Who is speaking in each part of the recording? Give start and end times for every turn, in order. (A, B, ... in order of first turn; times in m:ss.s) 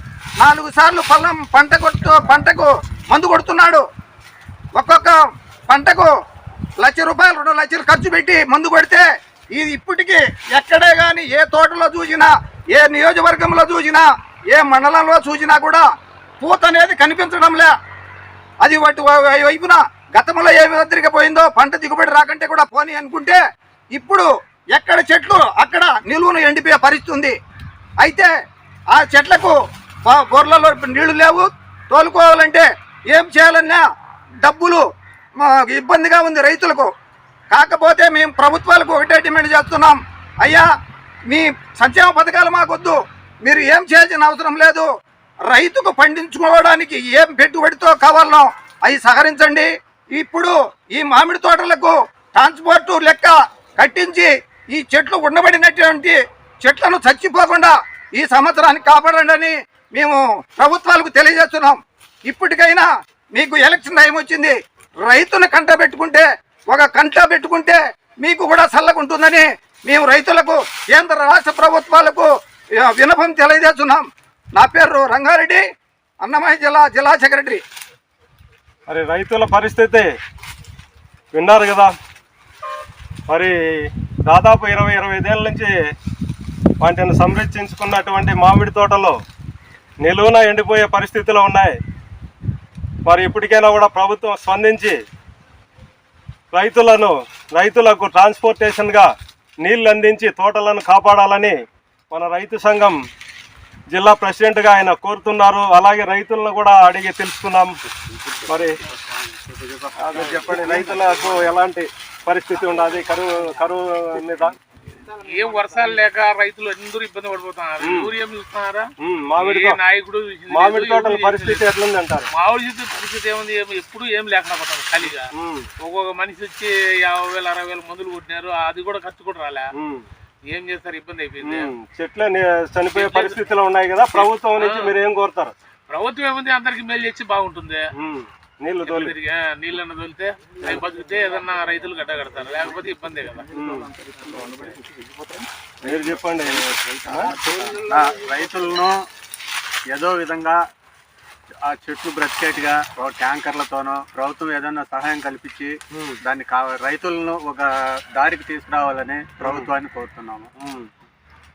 0:00.4-0:03.9 A
0:04.8-0:06.1 A
0:06.8-0:15.8 A
0:16.4-0:17.7 A
0:18.6-0:23.4 A
0:23.9-0:27.4 A
0:28.0-0:28.3 A
0:28.9-0:33.8 A
0:34.4-0:34.8 A
0:35.4-0:36.9 A
0:37.5-0:40.7 A
0:41.3-0:44.9 A
0:45.5-1:15.6 A
1:16.2-1:17.6 A
1:18.9-1:20.1 B
1:21.3-1:21.9 B
1:23.3-1:25.7 B
1:26.8-1:29.2 B
1:30.0-1:31.8 B
1:33.1-1:35.0 B
1:36.5-1:39.1 B
1:39.6-1:41.6 B
1:42.1-1:43.0 B
1:43.9-1:47.8 B
1:48.1-1:51.5 C
1:48.5-1:48.8 B
1:50.0-1:54.6 B
1:55.2-2:01.8 D
1:57.8-1:58.1 B
1:59.0-1:59.8 B
2:00.5-2:02.3 B
2:02.3-2:05.3 D
2:05.3-2:05.7 B
2:05.8-2:09.7 D
2:09.7-2:10.1 B
2:10.5-2:11.7 D
2:11.4-2:15.5 B
2:12.9-2:13.4 D
2:14.1-2:14.9 D
2:15.9-2:17.9 D
2:18.0-2:19.2 B
2:18.8-2:23.5 D
2:23.5-2:23.9 B
2:24.4-2:24.8 C
2:25.8-2:27.4 B
2:25.8-2:29.1 C
2:29.9-2:30.6 C
2:31.6-2:40.5 C
2:39.4-2:39.7 B
2:40.6-2:40.9 B